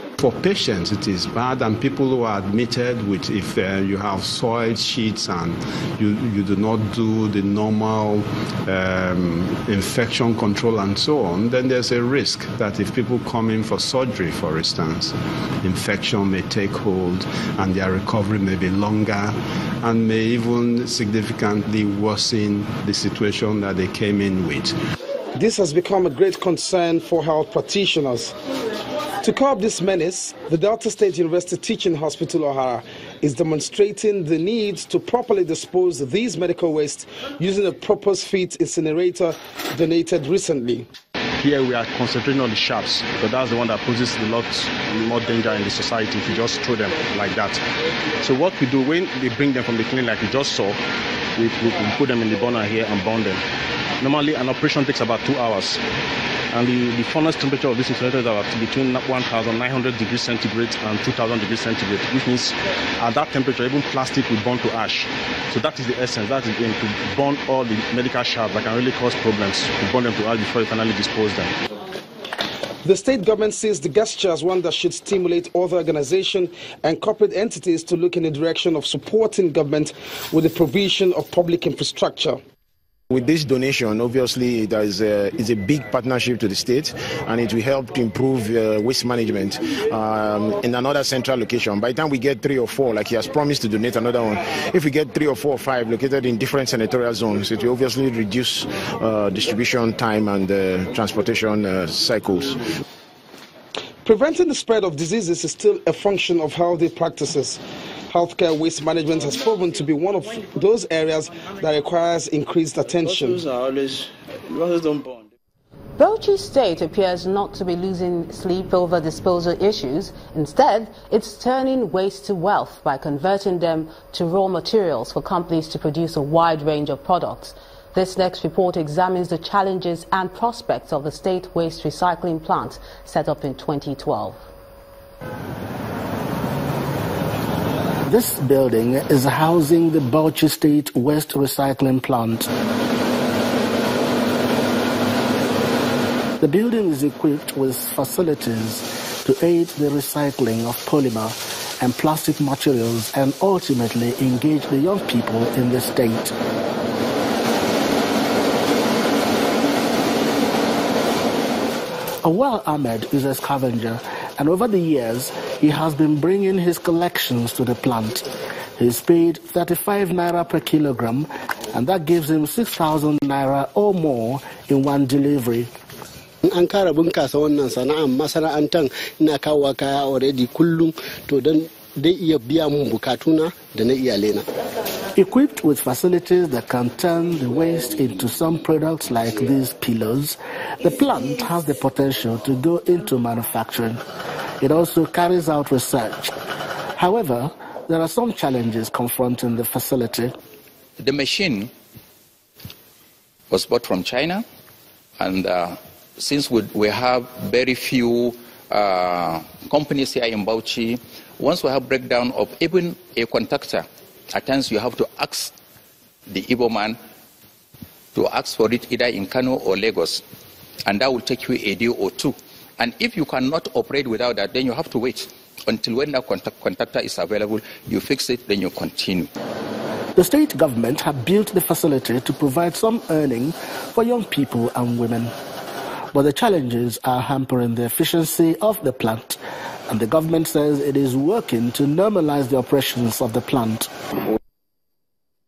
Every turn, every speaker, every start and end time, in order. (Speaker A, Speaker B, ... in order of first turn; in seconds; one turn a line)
Speaker A: 0.2-24.7
Speaker B: 25.3-28.3
Speaker B: 29.2-40.9
Speaker C: 41.4-47.6
Speaker C: 48.2-50.8
Speaker C: 51.4-53.4
Speaker C: 54.0-55.8
Speaker C: 56.5-71.5
Speaker B: 72.8-82.4
Speaker D: 83.1-102.6
Speaker B: 104.0-113.5
Speaker E: 116.0-134.4
Speaker F: 138.1-142.5
Speaker F: 146.4-156.3
Speaker F: 162.2-168.2
Speaker F: 168.8-175.7
Speaker G: 176.4-184.4
Speaker F: 185.1-194.0
Speaker F: 194.6-196.3
Speaker F: 197.0-200.3
Speaker H: 201.0-201.7
Speaker H: 203.5-204.4
Speaker H: 205.2-215.5
Speaker H: 216.3-217.0
Speaker H: 218.1-220.2
Speaker H: 220.8-229.3
Speaker F: 230.1-235.3
Speaker F: 236.1-243.9